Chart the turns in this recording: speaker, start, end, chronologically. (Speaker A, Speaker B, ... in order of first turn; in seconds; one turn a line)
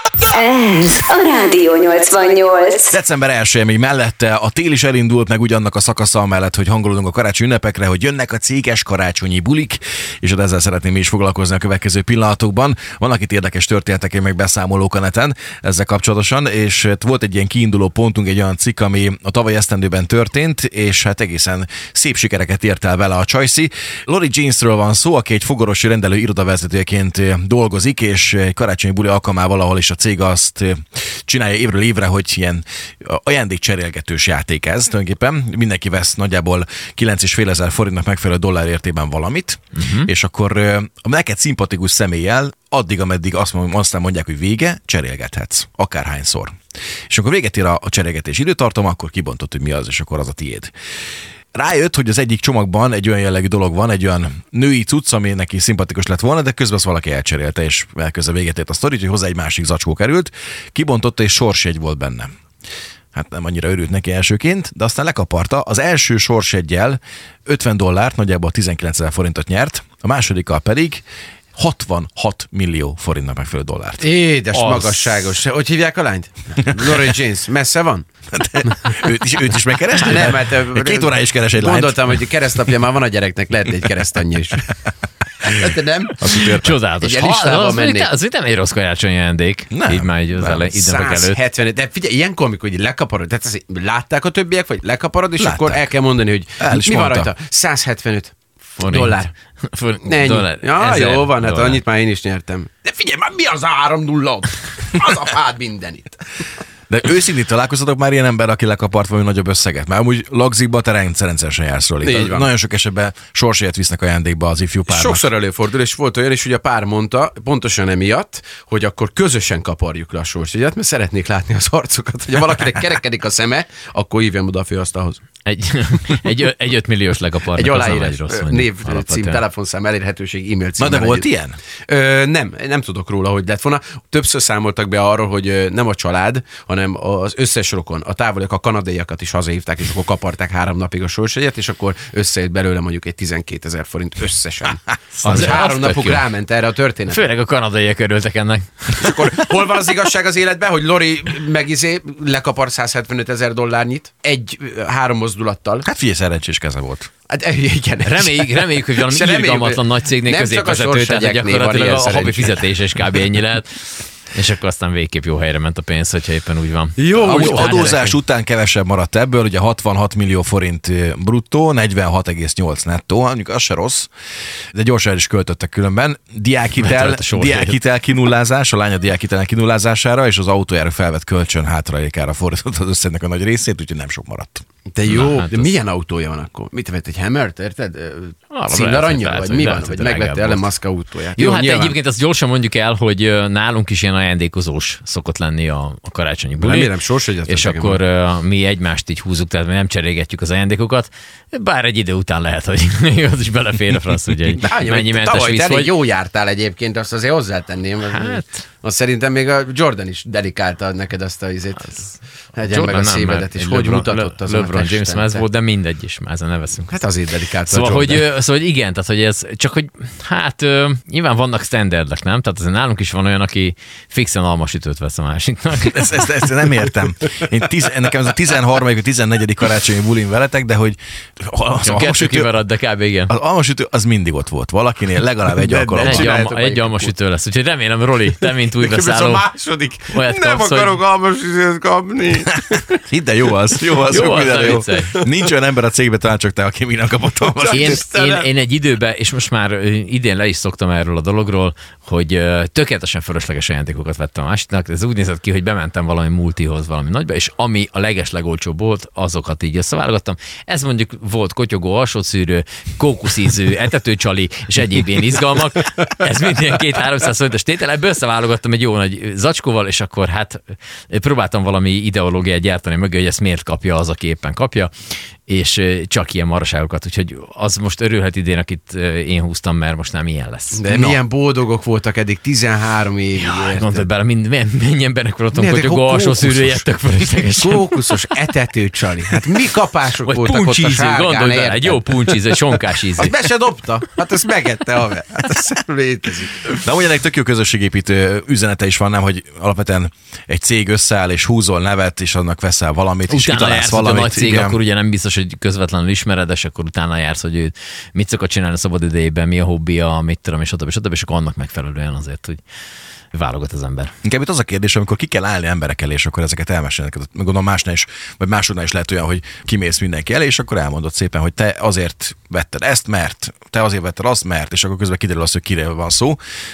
Speaker A: 0.3-2.9
Speaker B: 2.9-46.6
Speaker C: 39.8-40.1
Speaker B: 47.1-50.7
Speaker B: 51.5-62.3
Speaker B: 63.1-71.0
Speaker B: 71.5-74.0
Speaker D: 74.0-78.1
Speaker C: 74.5-75.2
Speaker B: 78.3-82.2
Speaker D: 79.9-84.7
Speaker D: 85.4-86.2
Speaker B: 86.2-86.8
Speaker C: 86.4-91.4
Speaker D: 87.0-88.1
Speaker B: 89.7-90.6
Speaker D: 90.7-99.3
Speaker B: 95.4-95.9
Speaker B: 96.6-97.3
Speaker C: 98.8-101.8
Speaker D: 100.0-106.2
Speaker B: 106.9-115.3
Speaker D: 112.0-112.5
Speaker D: 114.9-125.2
Speaker C: 125.5-129.4
Speaker D: 127.5-131.3
Speaker B: 130.8-131.6
Speaker D: 131.9-147.2
Speaker C: 145.2-146.3
Speaker C: 147.1-149.1
Speaker D: 148.9-155.9
Speaker B: 155.8-157.1
Speaker D: 157.3-162.7
Speaker C: 158.0-168.0
Speaker D: 167.0-168.2
Speaker B: 167.3-174.1
Speaker B: 174.7-184.7
Speaker C: 176.8-177.8
Speaker D: 184.9-192.0
Speaker C: 185.1-185.7
Speaker C: 188.5-190.7
Speaker C: 191.3-197.0
Speaker D: 196.6-198.0
Speaker C: 197.5-206.0
Speaker D: 204.6-215.5
Speaker C: 208.0-208.5
Speaker C: 212.6-216.9
Speaker D: 216.9-218.3
Speaker C: 217.7-226.5
Speaker B: 225.8-232.5
Speaker C: 231.8-233.3
Speaker B: 233.3-236.3
Speaker D: 235.6-237.1
Speaker C: 236.0-239.5
Speaker D: 238.6-242.9
Speaker C: 240.1-241.0
Speaker B: 242.9-248.0
Speaker C: 244.1-245.2
Speaker D: 244.4-245.2
Speaker D: 247.6-248.5
Speaker C: 247.7-274.9
Speaker C: 275.5-280.8
Speaker D: 280.7-284.1
Speaker B: 280.9-281.2
Speaker C: 283.4-288.3
Speaker D: 285.5-286.8
Speaker D: 287.5-292.4
Speaker C: 290.2-293.3
Speaker D: 293.1-296.6
Speaker B: 296.8-304.8
Speaker C: 303.3-312.6
Speaker C: 313.3-314.1
Speaker B: 314.2-326.4